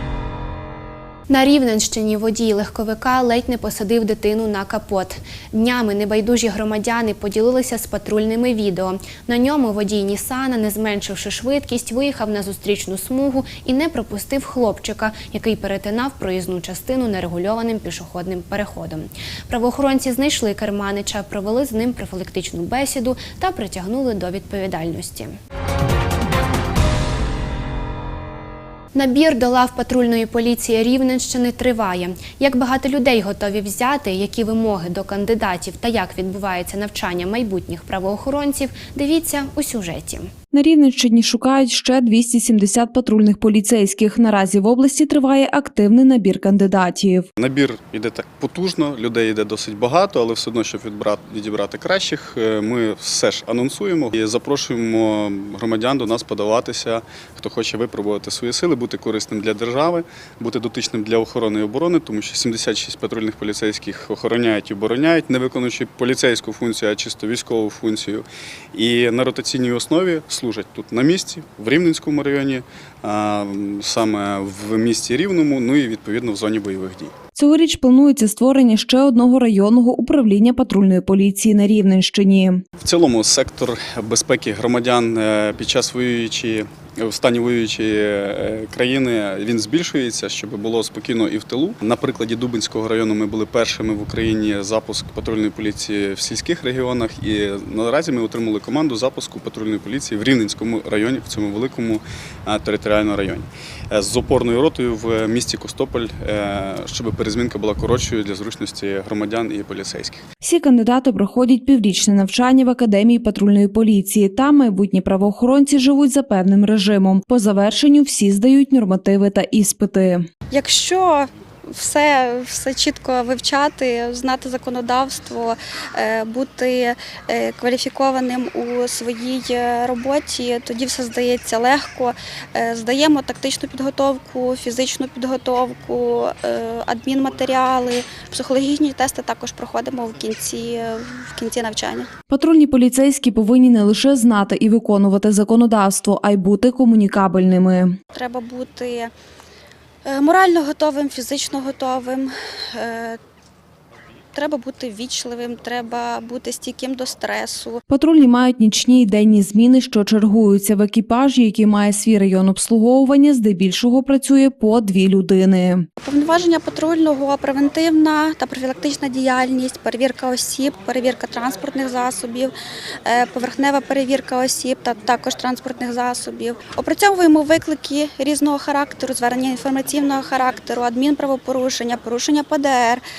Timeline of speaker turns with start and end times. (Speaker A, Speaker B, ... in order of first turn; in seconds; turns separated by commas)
Speaker A: 1.3-25.3, Speaker A: 28.9-40.3, Speaker B: 40.5-47.3, Speaker C: 47.4-77.1, Speaker B: 77.3-82.6, Speaker C: 82.8-110.2, Speaker B: 110.4-120.3, Speaker D: 120.5-142.1, Speaker B: 142.3-148.0, Speaker D: 148.1-149.1, Speaker D: 150.0-153.2, Speaker D: 154.3-157.8, Speaker B: 157.9-165.9, Speaker D: 166.0-172.5, Speaker D: 173.1-183.0